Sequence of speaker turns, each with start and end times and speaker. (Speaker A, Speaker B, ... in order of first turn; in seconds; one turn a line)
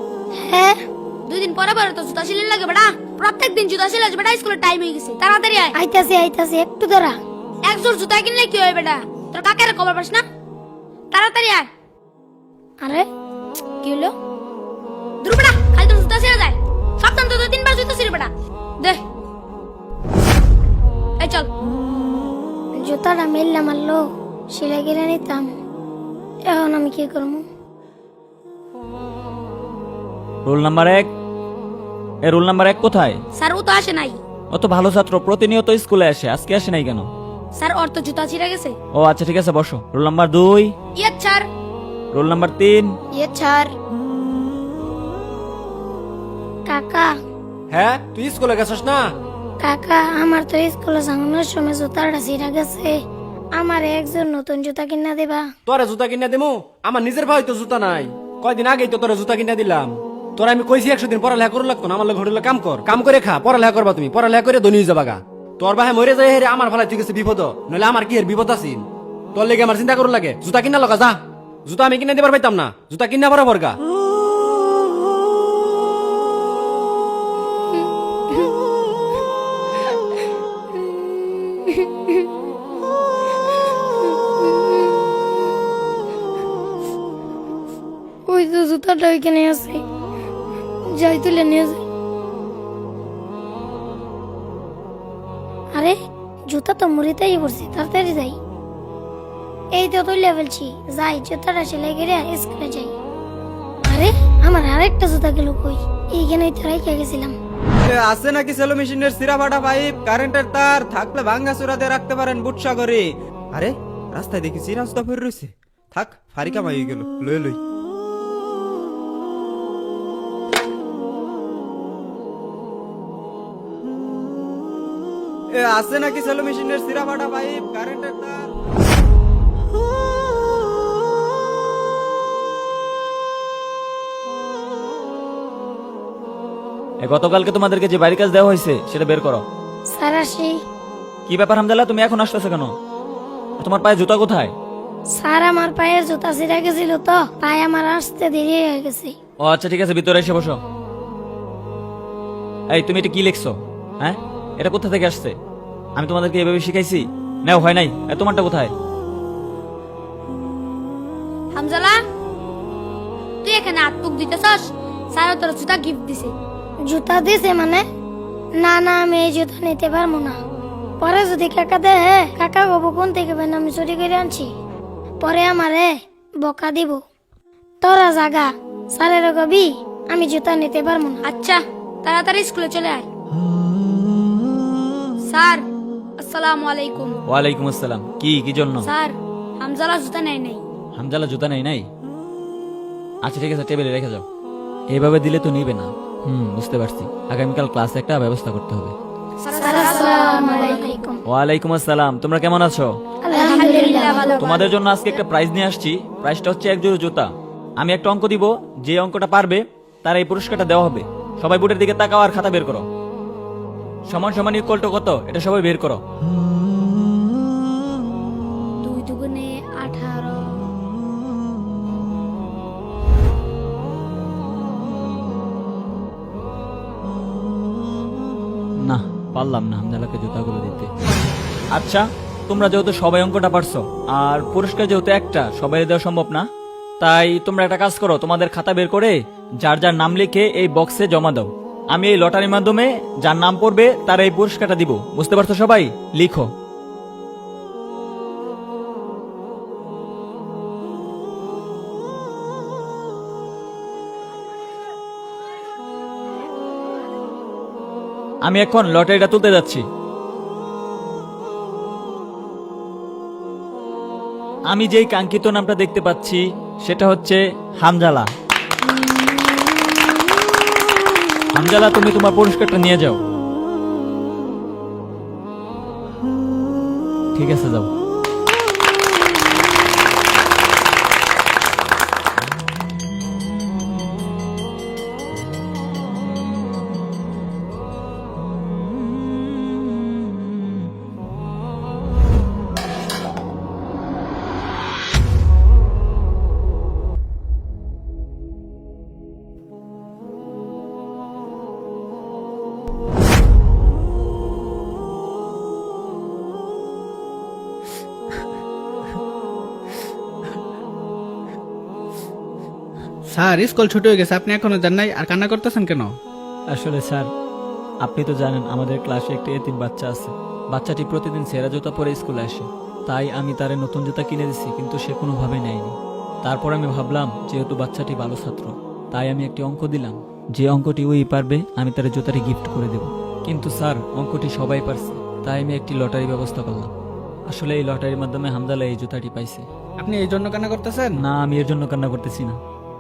Speaker A: 0.4-0.8
Speaker B: 1.3-5.8
Speaker A: 5.7-7.2
Speaker B: 7.6-10.2
Speaker B: 11.1-11.7
Speaker A: 12.8-13.1
Speaker B: 13.8-14.1
Speaker B: 15.2-19.0
Speaker B: 21.2-21.5
Speaker A: 22.8-25.5
Speaker A: 26.5-27.4
Speaker C: 30.4-31.1
Speaker C: 32.3-33.2
Speaker B: 33.4-34.2
Speaker C: 34.5-37.1
Speaker B: 37.6-38.8
Speaker C: 38.9-40.7
Speaker B: 41.0-41.5
Speaker C: 42.1-42.9
Speaker A: 43.1-43.7
Speaker A: 46.7-47.1
Speaker D: 47.7-49.1
Speaker A: 49.6-53.0
Speaker A: 53.6-55.5
Speaker D: 55.7-73.8
Speaker A: 84.4-84.7
Speaker A: 88.3-89.8
Speaker A: 90.9-91.8
Speaker A: 96.5-98.4
Speaker A: 99.8-102.9
Speaker A: 103.9-107.3
Speaker E: 107.8-117.6
Speaker E: 125.5-128.5
Speaker C: 137.0-139.4
Speaker A: 139.9-140.6
Speaker C: 141.3-142.7
Speaker C: 143.6-144.5
Speaker A: 145.1-149.2
Speaker C: 149.4-150.6
Speaker C: 152.7-155.3
Speaker C: 156.0-158.7
Speaker B: 161.5-162.0
Speaker B: 163.4-166.3
Speaker A: 166.9-167.8
Speaker A: 168.6-170.4
Speaker A: 171.0-174.5
Speaker A: 175.2-175.9
Speaker A: 176.4-177.0
Speaker A: 177.8-181.2
Speaker B: 181.2-183.1
Speaker B: 185.3-185.7
Speaker B: 186.2-187.2
Speaker C: 187.3-188.9
Speaker B: 188.8-190.6
Speaker C: 190.9-191.9
Speaker C: 193.2-194.2
Speaker C: 194.9-198.9
Speaker B: 199.4-201.0
Speaker A: 199.5-201.2
Speaker C: 201.3-202.9
Speaker A: 203.2-204.4
Speaker B: 203.3-204.7
Speaker C: 204.4-207.3
Speaker C: 207.8-212.8
Speaker C: 214.1-216.0
Speaker B: 218.8-220.7
Speaker C: 228.8-230.9
Speaker C: 231.7-236.4
Speaker C: 237.0-246.5
Speaker C: 258.4-259.9
Speaker C: 264.7-268.3
Speaker C: 271.6-273.2
Speaker C: 277.4-277.9
Speaker F: 313.4-316.1
Speaker C: 316.7-317.3
Speaker C: 318.0-336.9
Speaker C: 337.5-339.7
Speaker F: 340.0-341.2
Speaker C: 341.2-342.6